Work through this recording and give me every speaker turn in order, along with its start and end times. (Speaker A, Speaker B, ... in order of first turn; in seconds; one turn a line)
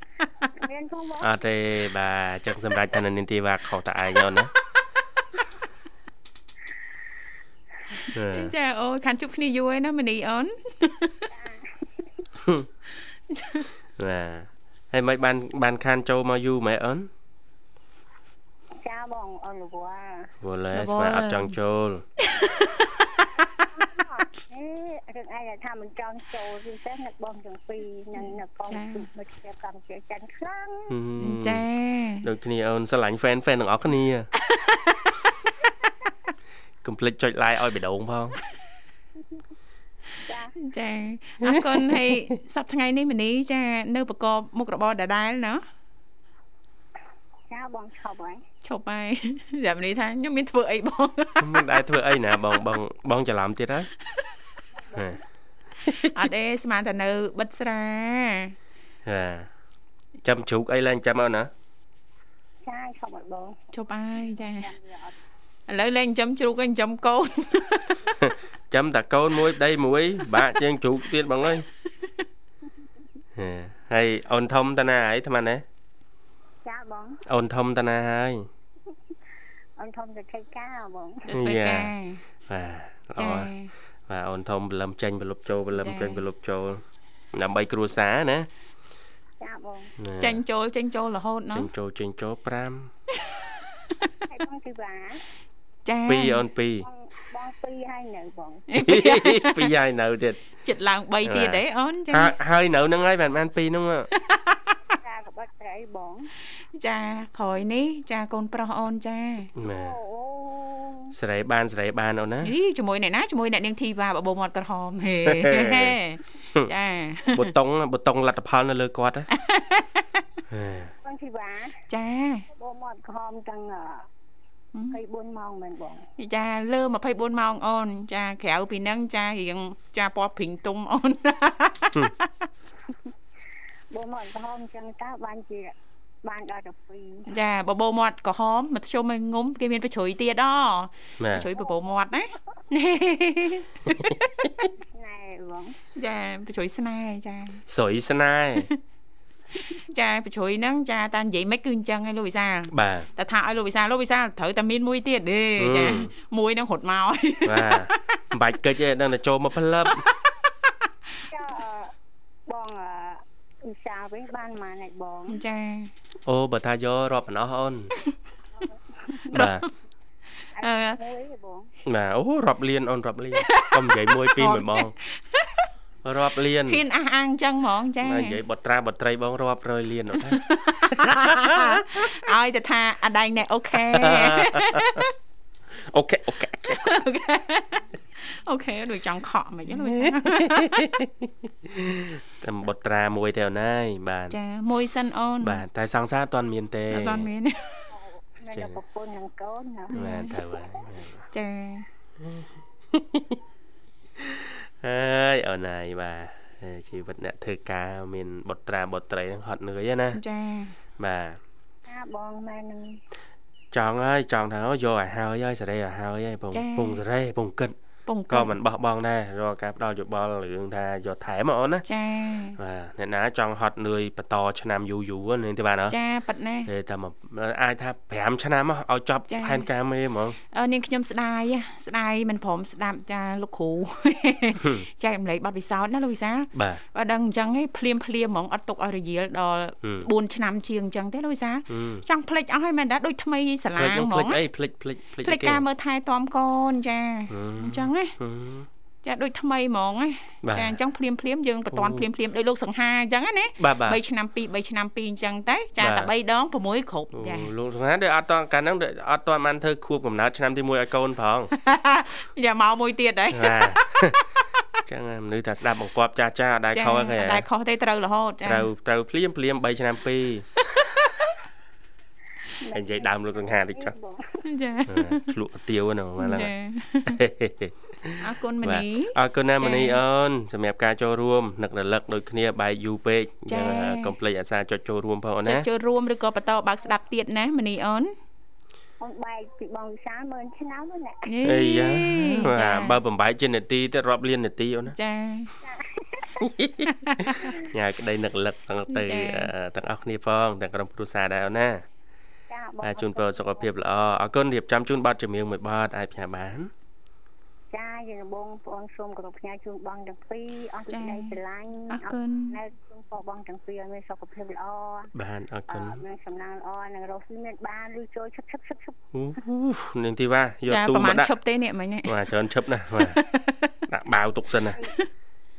Speaker A: 0.5-1.3
Speaker B: 1.2-4.5
Speaker B: 8.1-8.5
Speaker C: 8.3-11.2
Speaker A: 11.3-12.2
Speaker B: 12.4-12.7
Speaker C: 13.3-13.7
Speaker B: 14.0-17.1
Speaker A: 18.8-20.3
Speaker B: 20.4-22.0
Speaker C: 20.7-21.5
Speaker C: 22.2-23.1
Speaker A: 23.7-30.9
Speaker C: 28.1-29.1
Speaker B: 30.9-31.6
Speaker C: 31.2-32.3
Speaker B: 32.2-34.3
Speaker C: 34.5-35.1
Speaker B: 36.8-38.4
Speaker A: 40.2-40.5
Speaker C: 40.6-45.6
Speaker B: 41.4-42.2
Speaker A: 47.5-48.4
Speaker C: 48.6-51.6
Speaker B: 51.4-53.9
Speaker A: 54.8-55.2
Speaker C: 56.0-58.5
Speaker B: 59.0-59.5
Speaker B: 60.2-61.5
Speaker A: 62.6-63.6
Speaker C: 63.7-64.7
Speaker A: 64.2-65.1
Speaker C: 65.7-68.1
Speaker B: 68.2-71.7
Speaker B: 73.3-75.6
Speaker A: 76.6-77.2
Speaker B: 77.2-78.5
Speaker A: 79.8-81.2
Speaker C: 81.3-82.2
Speaker B: 81.3-81.9
Speaker B: 82.5-83.5
Speaker C: 83.2-83.7
Speaker B: 84.1-88.5
Speaker C: 85.7-86.2
Speaker A: 89.4-89.9
Speaker B: 90.0-90.4
Speaker C: 90.2-91.7
Speaker B: 91.5-92.9
Speaker C: 93.1-93.9
Speaker A: 94.3-95.2
Speaker C: 95.8-96.4
Speaker B: 96.0-96.8
Speaker A: 96.8-98.7
Speaker C: 98.7-99.7
Speaker B: 98.8-100.4
Speaker C: 100.6-102.3
Speaker B: 101.2-104.1
Speaker C: 104.2-104.8
Speaker A: 105.0-106.3
Speaker C: 106.7-109.5
Speaker B: 109.6-109.9
Speaker A: 109.6-111.1
Speaker B: 111.1-112.5
Speaker C: 112.4-117.5
Speaker B: 115.2-116.0
Speaker B: 117.3-119.3
Speaker C: 119.3-120.1
Speaker B: 120.5-120.9
Speaker A: 121.0-121.8
Speaker C: 121.9-122.5
Speaker A: 122.5-124.1
Speaker C: 124.7-125.0
Speaker A: 124.9-126.0
Speaker C: 126.2-132.3
Speaker A: 133.9-137.3
Speaker C: 137.3-144.2
Speaker B: 141.2-141.5
Speaker A: 144.9-145.8
Speaker C: 145.9-147.6
Speaker B: 147.7-148.7
Speaker C: 149.7-157.9
Speaker B: 152.7-153.1
Speaker B: 155.6-156.1
Speaker B: 157.4-160.0
Speaker C: 160.0-160.3
Speaker A: 161.3-161.9
Speaker A: 162.5-165.4
Speaker C: 165.3-165.9
Speaker B: 166.2-167.9
Speaker A: 168.6-169.3
Speaker C: 169.3-169.7
Speaker B: 169.3-169.6
Speaker A: 170.5-171.7
Speaker C: 170.6-171.0
Speaker B: 171.8-174.9
Speaker C: 173.4-175.7
Speaker B: 176.0-176.8
Speaker C: 176.7-178.4
Speaker B: 178.0-182.1
Speaker C: 180.2-185.1
Speaker B: 183.7-185.1
Speaker B: 185.8-186.9
Speaker C: 186.7-190.8
Speaker B: 189.7-194.3
Speaker C: 194.3-195.6
Speaker B: 195.4-197.3
Speaker C: 196.9-197.9
Speaker A: 197.9-199.9
Speaker C: 199.9-200.4
Speaker B: 199.9-201.2
Speaker C: 201.3-201.9
Speaker B: 202.2-203.4
Speaker B: 204.2-210.2
Speaker C: 210.1-210.8
Speaker B: 211.0-211.4
Speaker A: 211.9-213.0
Speaker B: 213.7-217.8
Speaker C: 216.5-217.0
Speaker C: 218.1-218.6
Speaker B: 218.3-221.8
Speaker C: 221.9-222.6
Speaker B: 222.6-225.9
Speaker C: 225.9-226.7
Speaker B: 226.7-230.4
Speaker C: 229.3-229.7
Speaker C: 230.5-244.4
Speaker B: 234.6-234.8
Speaker B: 236.5-236.8
Speaker B: 239.8-240.1
Speaker B: 241.7-242.0
Speaker B: 243.8-245.6
Speaker C: 245.2-248.1
Speaker B: 247.3-248.7
Speaker C: 249.0-257.5
Speaker B: 250.4-250.8
Speaker B: 251.7-252.1
Speaker B: 253.6-254.0
Speaker B: 255.8-256.1
Speaker B: 257.1-261.5
Speaker C: 261.5-263.9
Speaker B: 263.3-264.2
Speaker B: 264.9-267.4
Speaker C: 266.7-268.7
Speaker B: 268.4-270.5
Speaker C: 270.7-271.2
Speaker A: 272.6-274.4
Speaker B: 272.7-273.9
Speaker C: 274.4-275.3
Speaker B: 274.9-276.5
Speaker C: 276.2-277.2
Speaker B: 277.1-285.6
Speaker C: 278.2-280.0
Speaker C: 283.5-284.1
Speaker C: 285.4-288.1
Speaker A: 289.0-291.3
Speaker C: 291.3-293.0
Speaker B: 291.4-294.9
Speaker C: 294.9-295.5
Speaker A: 295.6-296.4
Speaker B: 296.4-301.8
Speaker C: 296.9-297.6
Speaker C: 298.9-299.5
Speaker A: 302.5-303.7
Speaker B: 302.8-306.7
Speaker A: 307.7-315.1
Speaker C: 310.9-312.6
Speaker B: 315.1-316.0
Speaker A: 315.7-319.0
Speaker B: 319.1-321.3
Speaker C: 320.7-322.2
Speaker B: 322.0-323.2
Speaker C: 322.9-323.8
Speaker B: 323.9-324.8